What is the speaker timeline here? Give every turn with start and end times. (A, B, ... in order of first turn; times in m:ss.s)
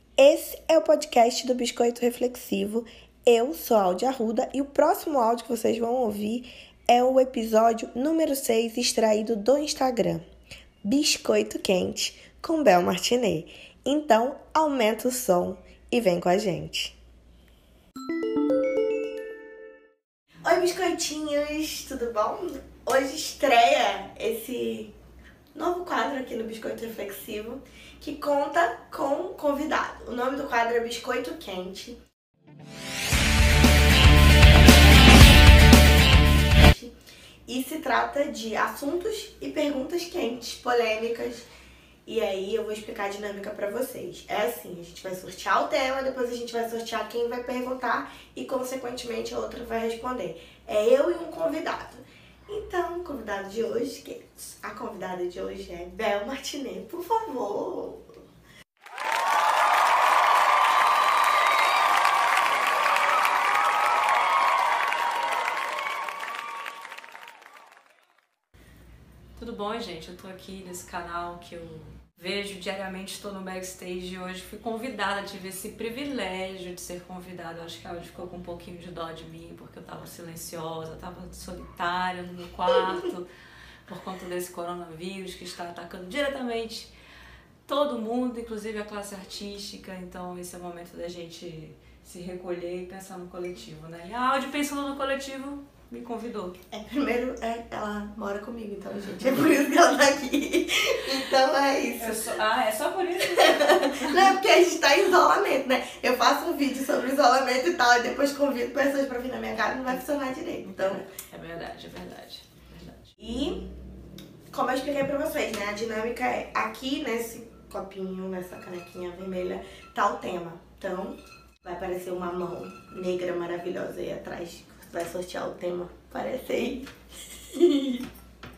0:00.2-0:10.2 A
0:10.8-0:16.9 A
0:20.4-0:24.9 A
0:25.5-0:32.0 A
0:36.6-0:36.9 A
0:37.5-0:41.5 A
0:42.0-0:58.1 A
1:09.4-1:23.3 B
1:23.9-1:26.9 B
1:27.6-1:36.6 B
1:36.7-1:42.3 A
1:42.0-1:44.3 B
1:43.3-1:51.0 A
1:50.6-1:53.1 B
1:53.2-1:53.6 A
1:54.5-2:08.0 A